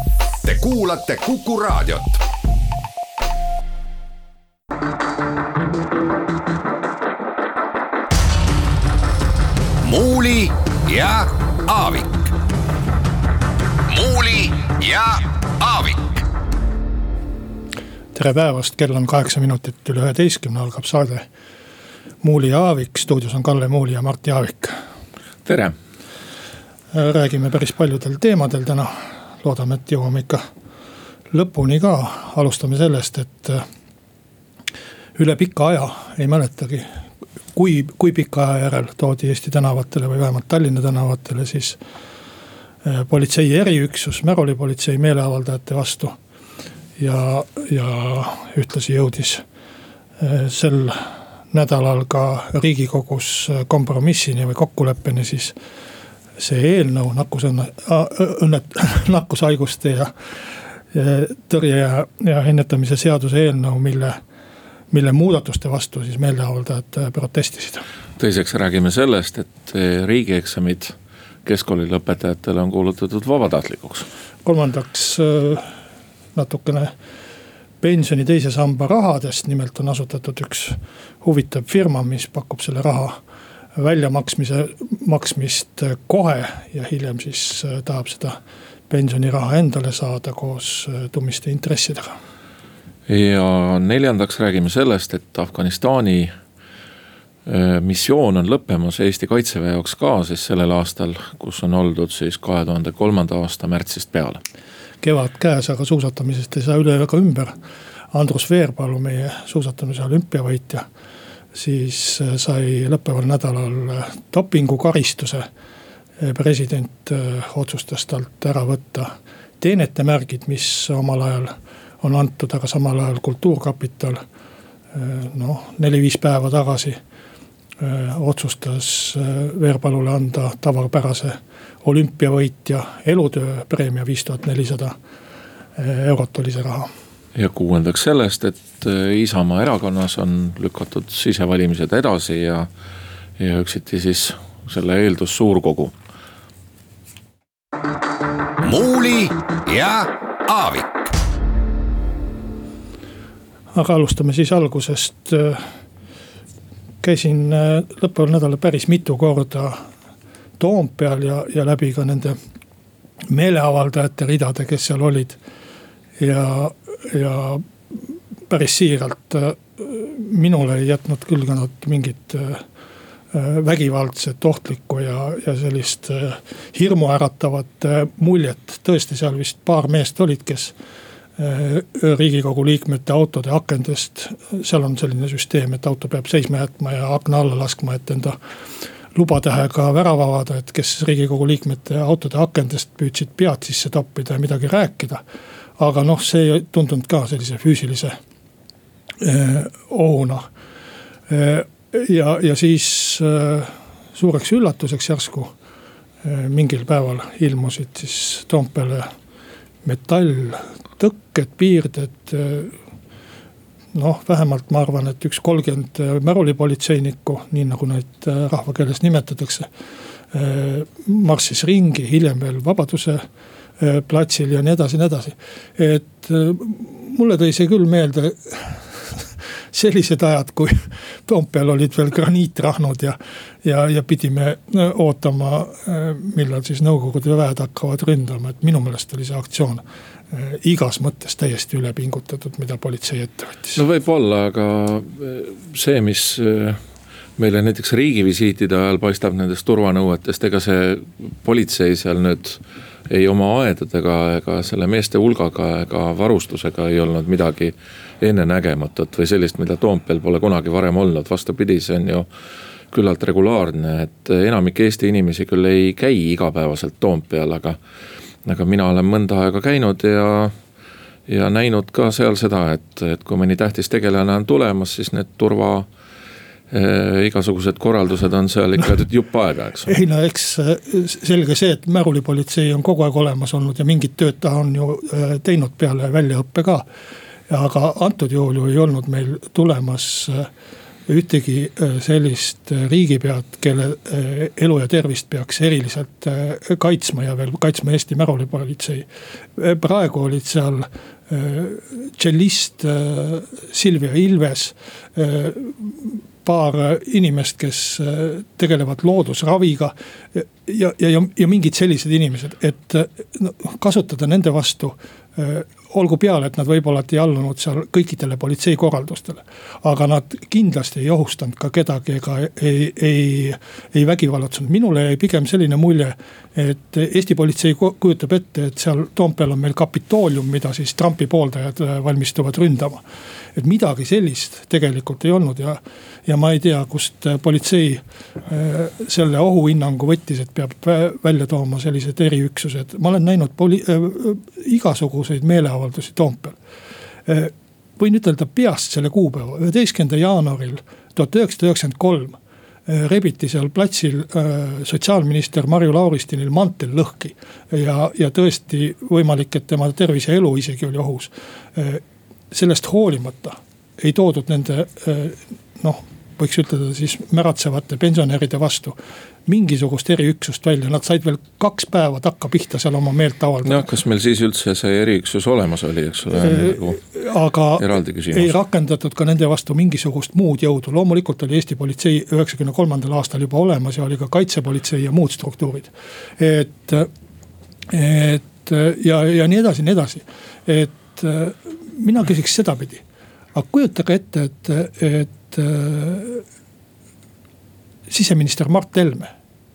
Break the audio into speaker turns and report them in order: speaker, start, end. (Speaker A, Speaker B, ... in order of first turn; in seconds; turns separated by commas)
Speaker A: 0.4-2.2, Speaker A: 9.8-12.3, Speaker A: 13.9-16.0, Speaker B: 18.1-21.3, Speaker B: 22.2-24.8, Speaker C: 25.4-25.7, Speaker B: 26.9-30.4, Speaker B: 31.3-33.6, Speaker B: 35.2-36.9, Speaker B: 37.5-41.8, Speaker B: 42.9-46.1, Speaker B: 47.0-49.4, Speaker B: 50.2-55.5, Speaker B: 56.4-60.1, Speaker B: 60.9-64.2, Speaker B: 64.9-67.8, Speaker C: 68.2-74.1, Speaker B: 74.5-75.7, Speaker B: 76.3-76.9, Speaker B: 77.8-83.2, Speaker B: 83.8-88.4, Speaker B: 88.9-92.2, Speaker C: 93.1-96.3, Speaker C: 97.5-104.4, Speaker B: 105.0-107.5, Speaker B: 108.1-110.8, Speaker B: 111.5-115.5, Speaker B: 116.2-124.2, Speaker B: 124.9-127.0, Speaker B: 127.8-135.0, Speaker B: 135.8-136.9, Speaker C: 137.3-142.7, Speaker C: 143.4-145.9, Speaker A: 148.6-151.1, Speaker B: 153.7-155.7, Speaker B: 157.0-159.8, Speaker B: 160.6-162.4, Speaker B: 163.3-165.4, Speaker B: 166.2-167.7, Speaker B: 168.5-172.6, Speaker B: 173.3-180.7, Speaker B: 181.4-188.4, Speaker B: 189.2-195.2, Speaker B: 195.8-198.2, Speaker B: 199.2-200.4, Speaker B: 201.3-205.5, Speaker B: 206.2-209.1, Speaker B: 209.8-212.7, Speaker B: 213.9-219.7, Speaker B: 220.3-223.2, Speaker B: 223.8-243.8, Speaker C: 243.8-246.8, Speaker C: 247.4-262.3, Speaker C: 262.9-267.8, Speaker C: 268.4-270.5, Speaker C: 271.3-275.9, Speaker C: 276.7-279.9, Speaker B: 279.9-286.9, Speaker B: 287.5-290.5, Speaker B: 291.1-299.1, Speaker B: 299.6-333.0, Speaker B: 333.6-346.6, Speaker B: 347.3-373.9, Speaker C: 373.6-377.0, Speaker B: 376.3-387.1, Speaker C: 377.8-378.5, Speaker B: 387.9-393.0, Speaker B: 393.6-396.4, Speaker B: 398.1-399.3